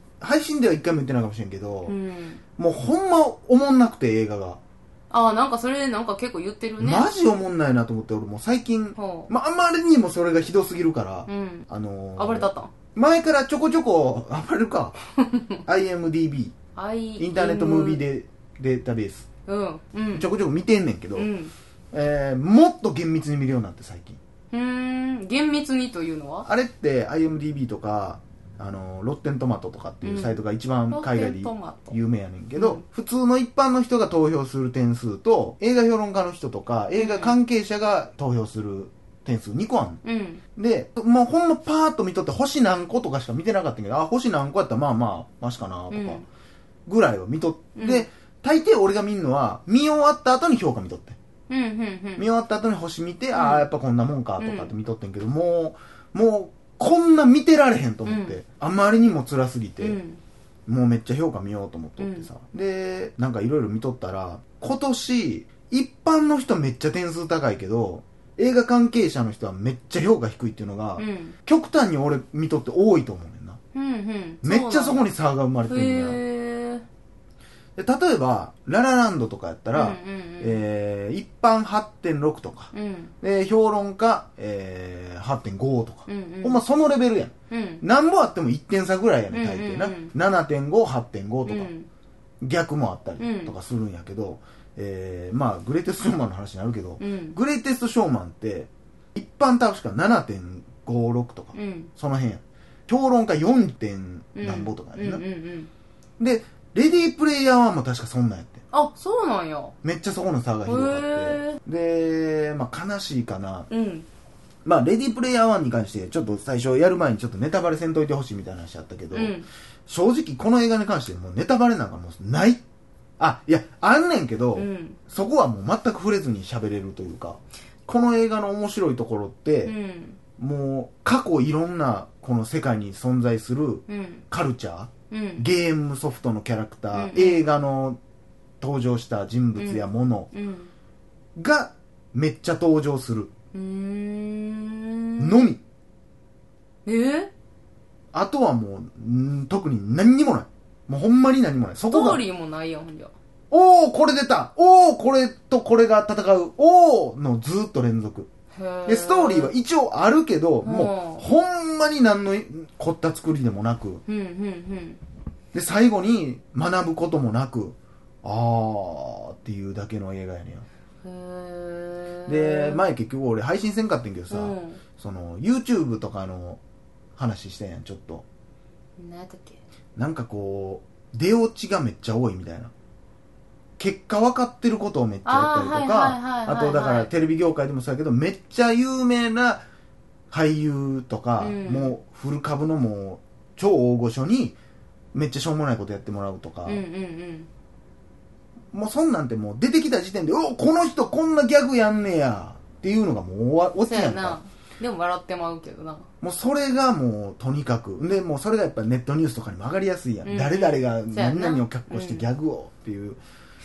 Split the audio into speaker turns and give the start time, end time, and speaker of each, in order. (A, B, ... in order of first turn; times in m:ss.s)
0:00.2-0:02.0 A
0:01.9-0:02.4 B
0:02.6-0:04.6 A
0:05.1-0:07.1 B
0:06.8-0:15.0 A
0:09.0-0:09.3 B
0:11.3-0:12.7 B
0:15.2-0:15.5 B
0:15.7-0:16.5 A
0:16.8-0:18.0 B
0:17.2-0:19.3 A
0:19.5-0:20.3 B
0:20.1-0:21.3 A
0:21.2-0:21.5 B
0:21.9-0:24.2 A
0:24.5-0:26.5 B
0:26.4-0:40.0 A
0:30.0-0:32.0 B
0:32.6-0:32.8 B
0:37.0-0:37.4 B
0:40.0-0:40.4 B
0:40.6-0:46.2 A
0:45.9-0:46.2 B
0:46.9-0:51.2 A
0:47.8-0:48.1 B
0:51.5-0:52.3 B
0:52.2-1:00.0 A
0:53.3-0:53.7 B
0:54.4-0:54.7 B
0:58.0-0:58.4 B
0:59.8-1:00.2 B
1:00.7-1:13.6 A
1:02.0-1:02.3 B
1:11.0-1:11.4 B
1:13.7-1:15.1 B
1:14.4-1:16.2 A
1:15.7-1:16.8 B
1:17.8-1:31.7 A
1:19.7-1:20.6 B
1:22.7-1:23.1 B
1:26.1-1:26.6 B
1:27.5-1:27.8 B
1:29.3-1:30.1 B
1:31.5-1:31.9 B
1:32.4-1:45.2 A
1:33.2-1:33.5 B
1:37.0-1:37.4 B
1:41.5-1:41.9 B
1:44.4-1:45.7 B
1:46.2-1:48.6 A
1:48.7-1:49.7 B
1:49.8-1:53.7 A
1:50.6-1:51.6 B
1:53.7-1:54.1 B
1:54.6-2:02.6 A
1:59.1-1:59.5 B
2:03.2-2:09.8 A
2:04.6-2:05.0 B
2:09.6-2:10.2 B
2:10.4-2:18.0 A
2:13.9-2:14.2 B
2:15.1-2:15.5 B
2:16.9-2:17.4 B
2:18.6-2:20.3 A
2:19.6-2:20.7 B
2:21.4-2:23.3 A
2:23.5-2:25.5 B
2:25.2-2:25.6 A
2:26.9-2:27.3 B
2:28.1-2:32.2 A
2:31.9-2:33.1 B
2:33.5-2:38.3 A
2:38.5-2:39.5 B
2:38.9-2:44.0 A
2:40.6-2:41.2 B
2:44.1-2:45.0 B
2:45.5-2:50.7 A
2:51.0-2:52.8 B
2:52.3-2:56.6 A
2:54.3-2:54.8 B
2:57.2-2:58.2 A
2:59.0-2:59.6 B
3:00.0-3:02.7 A
3:03.8-3:09.6 A
3:05.2-3:07.1 B
3:10.3-3:14.6 A
3:11.4-3:12.0 B
3:15.1-3:16.8 A
3:16.6-3:17.5 B
3:18.7-3:24.4 A
3:23.8-3:26.1 B
3:26.2-3:33.2 A
3:30.2-3:32.3 B